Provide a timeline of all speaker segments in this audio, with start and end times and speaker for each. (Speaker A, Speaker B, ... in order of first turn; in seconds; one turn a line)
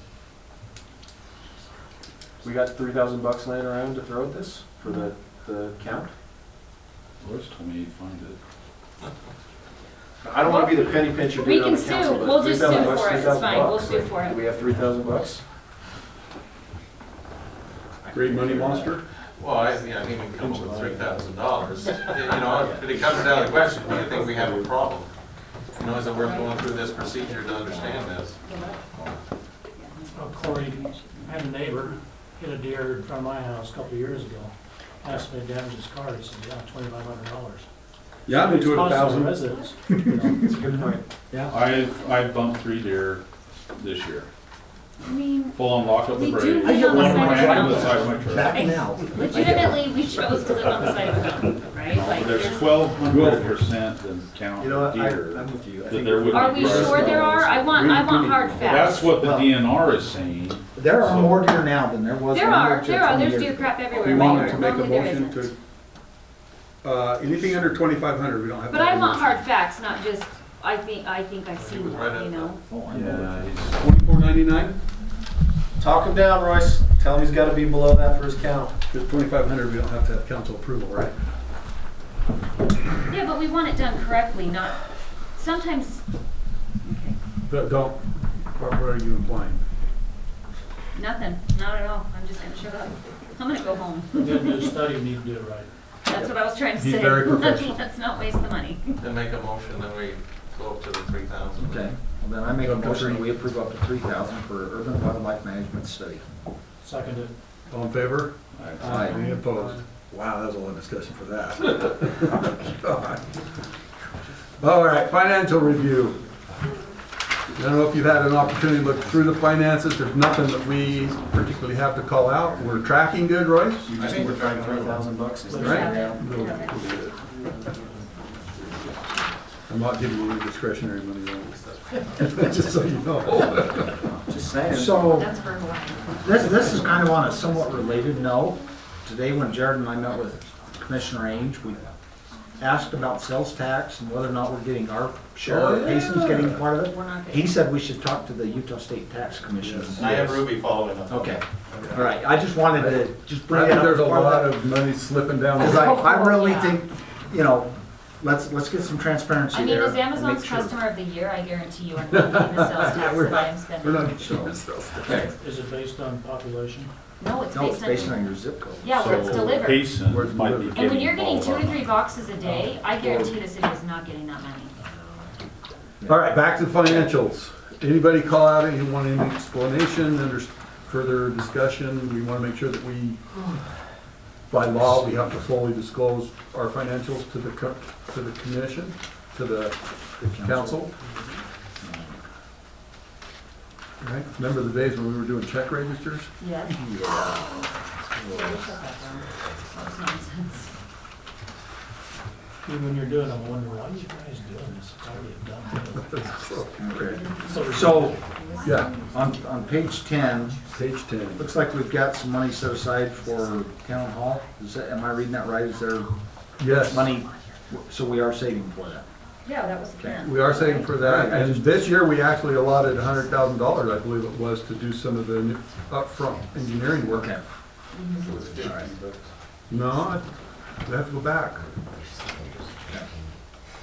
Speaker A: 2.4-6.1
Speaker B: 7.2-8.4
Speaker A: 10.2-15.4
Speaker C: 10.4-14.4
Speaker D: 18.1-19.0
Speaker A: 18.4-18.8
Speaker E: 19.4-25.1
Speaker A: 20.3-21.3
Speaker A: 22.1-24.7
Speaker E: 25.7-28.4
Speaker C: 25.8-28.8
Speaker C: 29.8-31.3
Speaker F: 30.1-37.7
Speaker D: 38.3-40.5
Speaker F: 38.3-39.8
Speaker A: 40.1-41.1
Speaker G: 41.3-41.5
Speaker B: 41.5-44.3
Speaker C: 45.0-52.9
Speaker B: 45.5-48.7
Speaker G: 46.6-50.7
Speaker B: 51.9-57.5
Speaker D: 53.0-53.6
Speaker A: 54.6-57.4
Speaker G: 55.7-55.9
Speaker C: 56.3-59.1
Speaker G: 56.6-57.5
Speaker D: 57.7-59.0
Speaker B: 58.6-61.4
Speaker G: 59.1-59.6
Speaker G: 60.8-64.7
Speaker C: 62.3-65.5
Speaker D: 64.0-65.5
Speaker D: 66.8-69.4
Speaker C: 68.7-72.6
Speaker E: 71.6-72.6
Speaker G: 72.7-73.3
Speaker B: 72.9-73.8
Speaker D: 73.8-74.8
Speaker A: 75.8-78.7
Speaker D: 78.9-81.1
Speaker C: 83.1-86.0
Speaker C: 86.8-87.2
Speaker D: 87.4-89.6
Speaker C: 90.9-94.8
Speaker F: 94.2-95.7
Speaker C: 96.1-99.0
Speaker D: 96.2-97.8
Speaker E: 99.0-102.0
Speaker G: 101.6-106.2
Speaker D: 102.6-103.3
Speaker F: 106.8-107.3
Speaker D: 107.7-113.2
Speaker B: 108.6-108.9
Speaker G: 108.8-109.2
Speaker A: 108.8-109.6
Speaker C: 109.1-109.4
Speaker D: 114.6-116.2
Speaker D: 117.5-123.9
Speaker E: 118.6-119.4
Speaker E: 120.8-121.2
Speaker A: 123.8-126.3
Speaker E: 124.0-125.8
Speaker F: 125.5-125.9
Speaker C: 125.6-126.8
Speaker D: 125.6-127.2
Speaker E: 126.5-129.0
Speaker A: 127.3-127.8
Speaker D: 129.7-131.6
Speaker E: 131.4-138.7
Speaker D: 132.1-134.0
Speaker A: 134.3-135.1
Speaker G: 134.7-135.3
Speaker C: 135.0-136.4
Speaker G: 136.2-141.8
Speaker A: 136.4-136.8
Speaker E: 140.9-141.9
Speaker E: 142.6-142.8
Speaker G: 142.6-150.2
Speaker D: 145.4-146.7
Speaker C: 146.8-147.6
Speaker D: 149.6-150.5
Speaker E: 149.9-152.1
Speaker G: 151.1-154.6
Speaker D: 152.8-156.3
Speaker C: 155.6-156.8
Speaker G: 155.6-160.8
Speaker C: 159.5-164.3
Speaker D: 162.1-165.3
Speaker G: 164.2-164.5
Speaker F: 165.1-166.9
Speaker C: 167.2-168.3
Speaker G: 167.5-169.2
Speaker C: 168.8-169.9
Speaker B: 168.9-172.0
Speaker D: 170.1-170.9
Speaker C: 170.8-174.8
Speaker F: 172.4-172.7
Speaker D: 173.0-173.3
Speaker D: 176.1-183.2
Speaker D: 184.5-190.9
Speaker G: 190.2-190.8
Speaker G: 191.8-192.2
Speaker D: 194.0-196.4
Speaker C: 196.4-196.8
Speaker G: 196.8-197.3
Speaker C: 197.6-200.8
Speaker G: 198.3-198.6
Speaker E: 199.4-199.9
Speaker F: 202.6-206.2
Speaker E: 203.0-204.8
Speaker E: 205.4-216.3
Speaker D: 205.9-207.2
Speaker G: 206.8-208.2
Speaker C: 207.0-209.2
Speaker F: 207.4-208.2
Speaker D: 208.6-208.9
Speaker G: 209.1-210.6
Speaker D: 210.7-211.5
Speaker G: 211.4-216.1
Speaker D: 216.6-217.1
Speaker E: 216.9-217.7
Speaker G: 216.9-219.1
Speaker E: 218.5-219.4
Speaker C: 219.4-220.9
Speaker E: 220.0-221.7
Speaker G: 220.0-220.2
Speaker D: 220.2-227.3
Speaker G: 221.0-221.7
Speaker E: 222.5-224.2
Speaker E: 225.7-227.4
Speaker G: 227.1-227.4
Speaker C: 227.9-228.3
Speaker E: 228.1-229.3
Speaker G: 228.6-228.9
Speaker D: 229.7-231.7
Speaker E: 230.0-230.6
Speaker E: 231.6-233.3